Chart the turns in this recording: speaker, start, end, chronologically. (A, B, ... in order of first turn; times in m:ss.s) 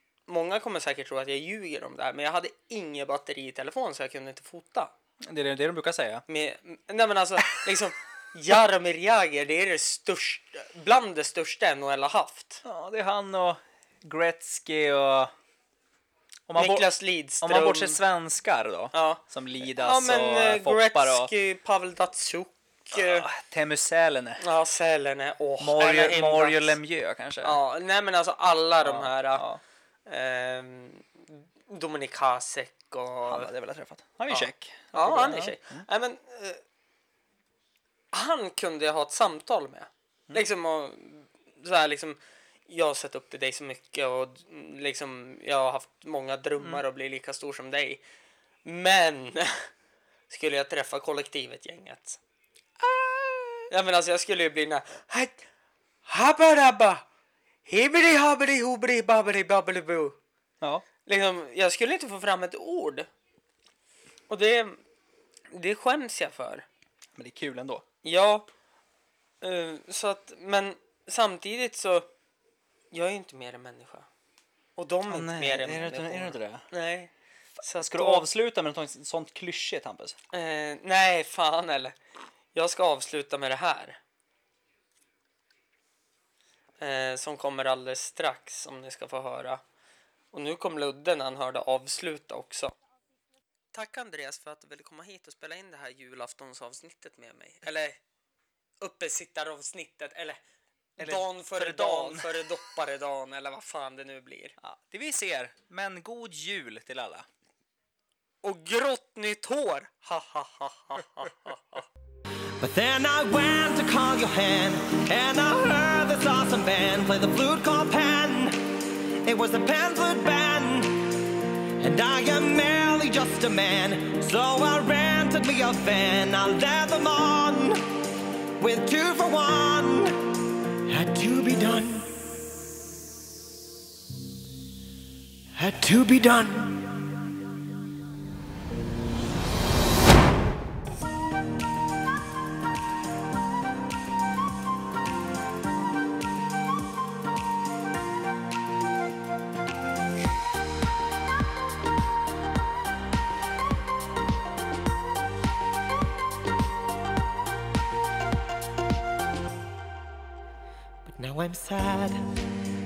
0:00.3-0:04.9 A
0:05.2-0:06.2 B
0:06.3-0:12.6 A
0:12.6-0:15.3 B
0:16.5-0:21.3 B
0:16.6-0:18.0 A
0:18.9-0:23.3 A
0:22.9-0:24.4 B
0:24.4-0:26.8 A
0:25.6-0:27.6 B
0:27.4-0:29.4 A
0:28.8-0:29.6 B
0:30.1-0:33.5 A
0:33.3-0:35.8 B
0:34.3-0:36.6 A
0:38.1-0:48.0 A
0:48.6-0:49.7 A
0:50.3-0:52.2 A
0:52.8-0:53.7 B
0:53.7-0:55.4 A
0:56.0-0:57.0 A
0:57.6-1:00.2 A
1:01.0-1:03.1 A
1:04.3-1:04.8 A
1:05.5-1:06.6 A
1:07.2-1:07.8 B
1:08.0-1:08.4 A
1:09.4-1:12.1 A
1:12.9-1:14.1 A
1:14.8-1:17.1 A
1:15.1-1:16.6 B
1:17.6-1:18.3 A
1:17.8-1:20.2 B
1:20.3-1:22.0 A
1:22.5-1:24.0 A
1:26.8-1:29.6 A
1:30.3-1:32.7 A
1:33.7-1:38.0 A
1:38.8-1:40.4 A
1:41.0-1:44.6 A
1:41.0-1:42.4 B
1:44.6-1:47.3 B
1:48.4-1:51.8 A
1:52.6-1:58.6 C
1:59.2-2:01.2 C
2:01.8-2:07.8 C
2:08.6-2:10.2 C
2:10.9-2:12.3 C
2:15.5-2:17.2 C
2:41.0-2:42.4 C